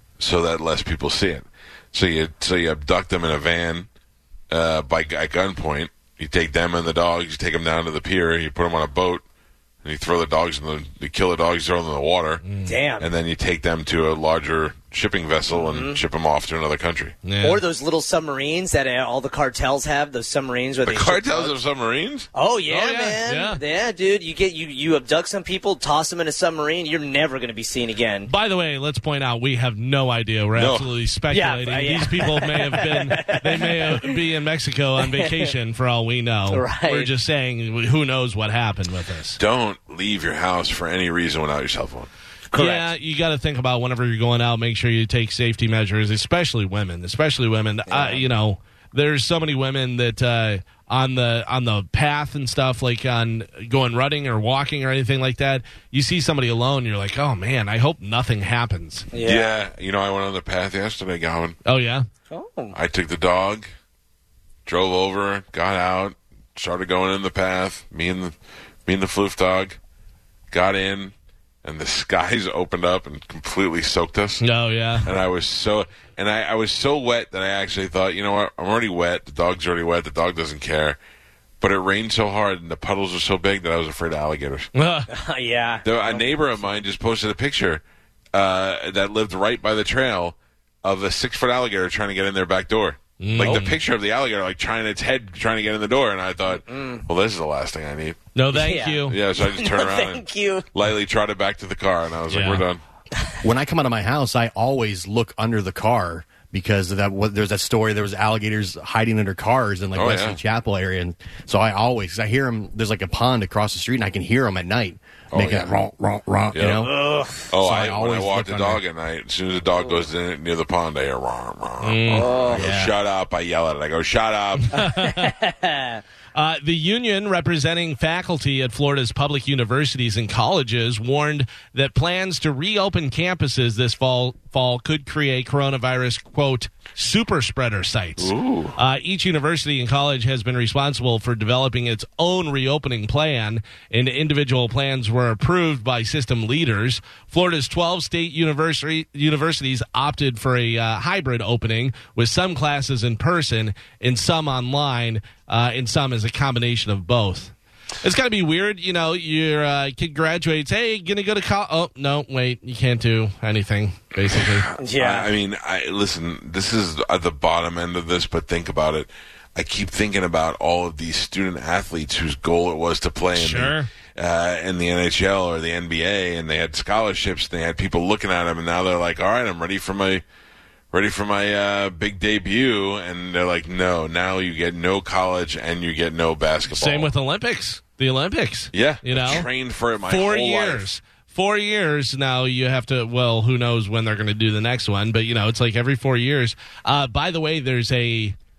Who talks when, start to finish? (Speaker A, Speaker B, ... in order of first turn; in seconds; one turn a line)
Speaker A: 0.2-3.9
Speaker A: 4.5-9.2
Speaker A: 9.8-12.4
Speaker B: 12.4-12.7
Speaker C: 12.7-13.1
Speaker A: 13.0-17.2
Speaker C: 15.5-16.0
Speaker B: 17.2-17.6
Speaker C: 17.4-21.5
Speaker A: 20.8-22.3
Speaker C: 22.3-28.3
Speaker B: 22.7-23.6
Speaker B: 28.3-39.4
Speaker A: 30.5-30.9
Speaker C: 31.3-34.1
Speaker C: 35.0-35.5
Speaker C: 36.5-37.1
Speaker A: 39.4-42.1
Speaker C: 42.5-42.9
Speaker B: 42.5-59.0
Speaker C: 47.9-48.2
Speaker C: 59.1-59.5
Speaker A: 59.2-61.6
Speaker B: 61.6-62.0
Speaker C: 62.3-62.7
Speaker A: 62.7-63.7
Speaker A: 64.7-68.3
Speaker A: 68.8-69.8
Speaker A: 70.5-71.1
Speaker A: 71.6-74.4
Speaker B: 74.4-75.1
Speaker A: 75.0-81.0
Speaker A: 81.6-84.7
Speaker B: 84.7-85.1
Speaker C: 85.1-86.7
Speaker A: 85.8-87.8
Speaker A: 88.3-98.2
Speaker B: 93.2-93.8
Speaker C: 96.7-97.0
Speaker B: 98.3-99.2
Speaker C: 98.5-100.6
Speaker A: 99.1-102.8
Speaker B: 102.3-102.6
Speaker D: 103.4-116.9
Speaker A: 109.9-110.4
Speaker A: 115.3-115.7
Speaker A: 116.5-116.9
Speaker C: 116.8-117.5
Speaker A: 117.5-124.8
Speaker D: 117.5-118.8
Speaker B: 121.8-122.3
Speaker C: 122.1-122.6
Speaker D: 122.5-122.9
Speaker B: 124.7-125.3
Speaker C: 124.8-126.0
Speaker B: 126.3-164.7
Speaker A: 138.2-138.8
Speaker A: 164.3-180.2
Speaker C: 164.8-165.3
Speaker B: 173.3-173.9
Speaker A: 180.9-187.1
Speaker B: 186.7-189.5
Speaker A: 188.7-190.9
Speaker B: 190.1-198.3